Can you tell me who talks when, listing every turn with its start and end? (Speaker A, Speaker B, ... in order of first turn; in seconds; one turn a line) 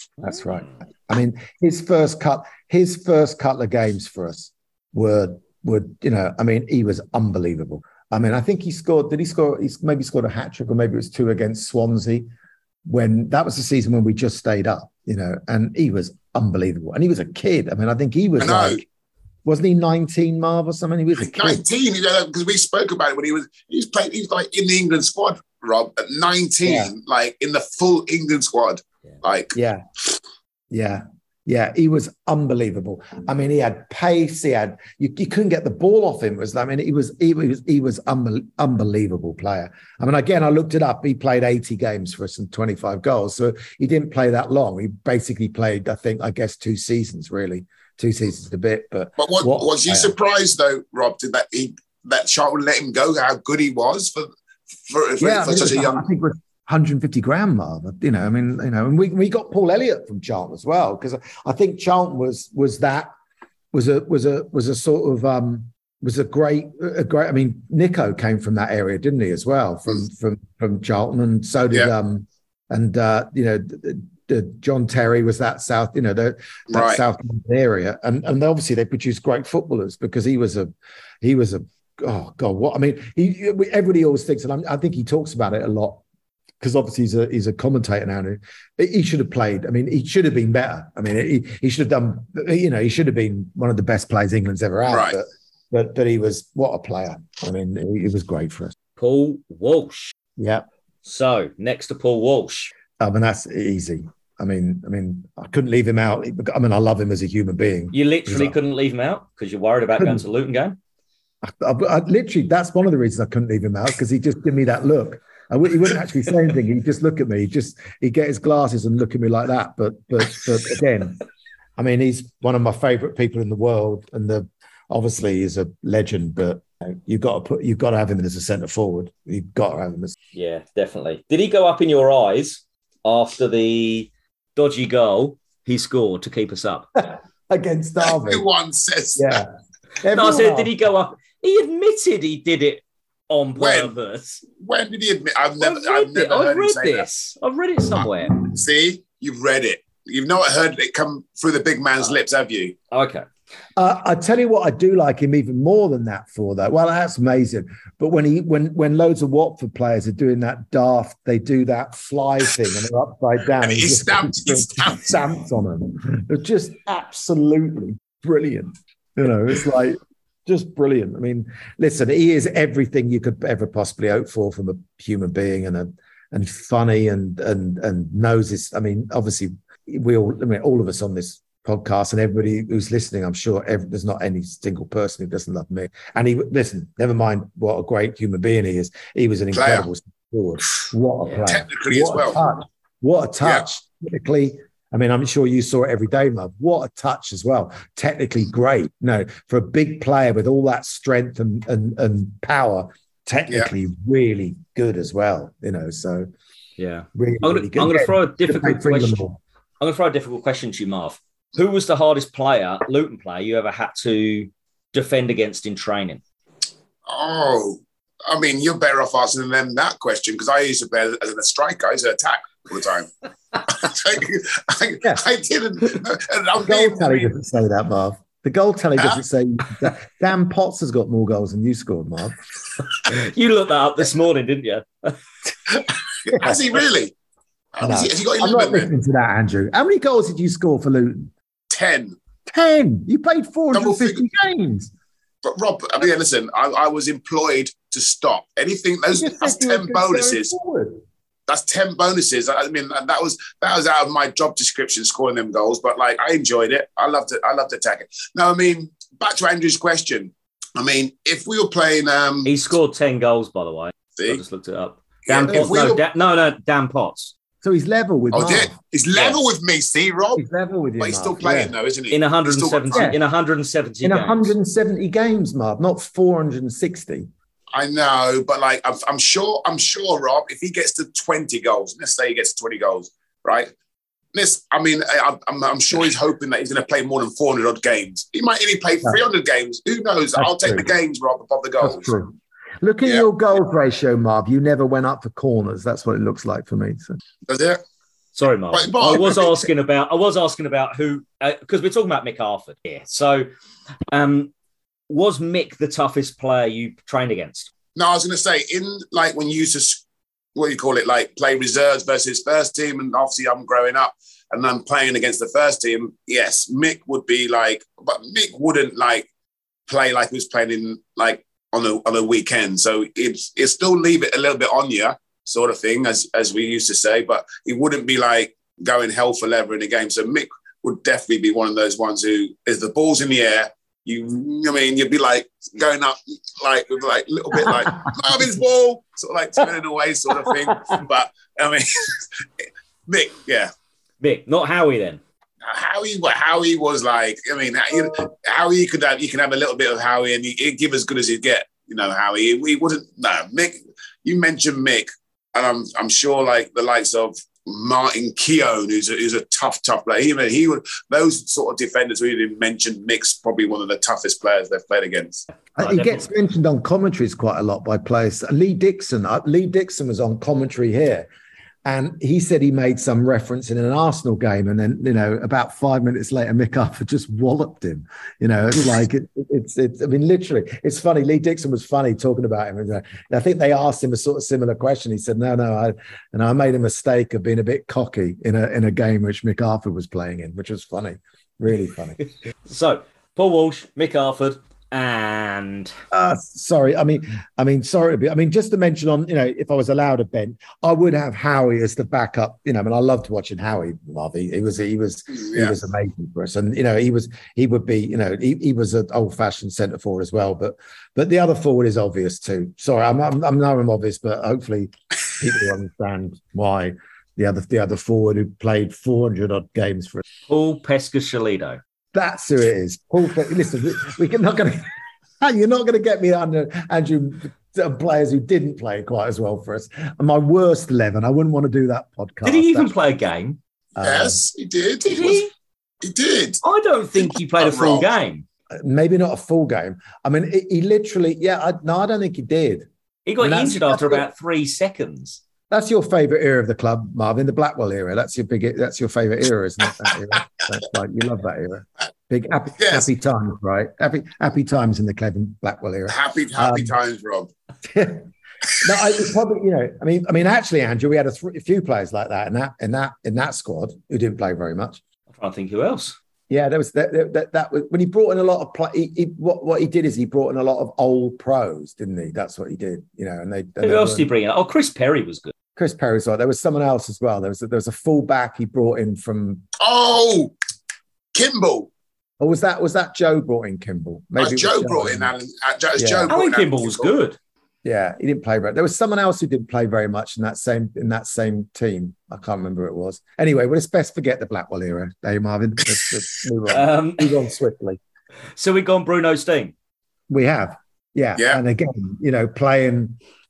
Speaker A: 0.2-12.2
Speaker A: 12.9-18.9
Speaker B: 18.4-18.8
Speaker A: 19.4-21.6
Speaker B: 21.2-29.5
Speaker A: 26.6-26.9
Speaker A: 29.5-29.8
Speaker A: 30.7-50.1
Speaker B: 49.2-54.3
Speaker B: 54.9-56.0
Speaker A: 55.2-63.1
Speaker A: 63.7-86.0
Speaker B: 76.7-77.0
Speaker A: 86.6-98.8
Speaker B: 94.9-95.2
Speaker C: 99.0-100.1
Speaker A: 100.4-100.6
Speaker C: 101.0-102.7
Speaker A: 103.0-108.5
Speaker C: 107.9-110.8
Speaker A: 110.0-110.2
Speaker A: 111.4-121.2
Speaker A: 121.8-130.1
Speaker C: 130.3-136.9
Speaker A: 136.9-138.4
Speaker B: 138.0-139.4
Speaker A: 139.2-140.7
Speaker C: 140.1-144.4
Speaker B: 143.6-143.9
Speaker B: 144.6-147.0
Speaker C: 145.6-148.3
Speaker B: 148.4-152.8
Speaker C: 152.9-153.2
Speaker A: 153.8-206.3
Speaker B: 163.6-165.2
Speaker B: 189.5-189.9
Speaker B: 191.4-192.4
Speaker C: 206.8-209.2
Speaker A: 207.1-209.4
Speaker C: 209.8-216.2
Speaker B: 217.1-227.3
Speaker A: 226.6-232.4
Speaker C: 233.1-235.2
Speaker B: 236.2-237.1
Speaker A: 236.3-236.6
Speaker B: 237.7-238.9
Speaker A: 237.8-241.3
Speaker B: 241.7-242.2
Speaker A: 242.5-244.9
Speaker B: 243.7-244.2
Speaker B: 245.4-250.5
Speaker A: 249.1-251.0
Speaker B: 251.5-262.6
Speaker C: 262.4-267.3
Speaker B: 265.3-266.0
Speaker A: 265.5-266.0
Speaker A: 267.6-269.4
Speaker B: 268.3-270.4
Speaker A: 270.3-271.7
Speaker B: 271.0-273.1
Speaker C: 272.1-274.5
Speaker A: 272.9-273.2
Speaker A: 274.0-277.3
Speaker B: 277.7-283.7
Speaker B: 284.3-292.1
Speaker A: 290.4-290.9
Speaker A: 291.8-297.2
Speaker B: 297.5-297.8
Speaker C: 298.4-303.5
Speaker B: 298.7-299.7
Speaker C: 304.1-304.5
Speaker C: 305.1-307.7
Speaker B: 307.9-310.0
Speaker B: 310.5-319.3
Speaker B: 319.9-342.5
Speaker A: 337.6-338.1
Speaker A: 340.4-341.0
Speaker B: 343.1-343.7
Speaker C: 344.2-345.2
Speaker B: 345.6-365.4
Speaker A: 365.8-371.3
Speaker C: 365.8-366.2
Speaker A: 371.8-392.2
Speaker C: 392.6-395.9
Speaker A: 396.1-420.2
Speaker B: 405.3-405.7
Speaker C: 420.5-421.8
Speaker A: 422.1-432.9
Speaker C: 432.4-433.6
Speaker A: 434.0-434.4
Speaker B: 434.0-435.4
Speaker C: 435.1-435.5
Speaker B: 436.0-436.6
Speaker C: 436.6-438.4
Speaker B: 437.2-438.1
Speaker A: 438.7-442.9
Speaker C: 443.2-445.4
Speaker A: 443.4-444.2
Speaker A: 445.7-456.9
Speaker B: 452.8-453.1
Speaker B: 456.1-457.5
Speaker A: 457.8-465.0
Speaker C: 465.3-466.1
Speaker A: 466.5-474.3
Speaker C: 473.8-475.5
Speaker A: 475.8-479.6
Speaker B: 479.8-480.5
Speaker B: 481.3-481.9
Speaker A: 482.4-485.3
Speaker B: 484.4-487.1
Speaker A: 485.9-486.3
Speaker C: 486.3-487.4
Speaker A: 487.8-498.0
Speaker C: 496.7-497.3
Speaker C: 498.6-499.7
Speaker A: 500.3-503.2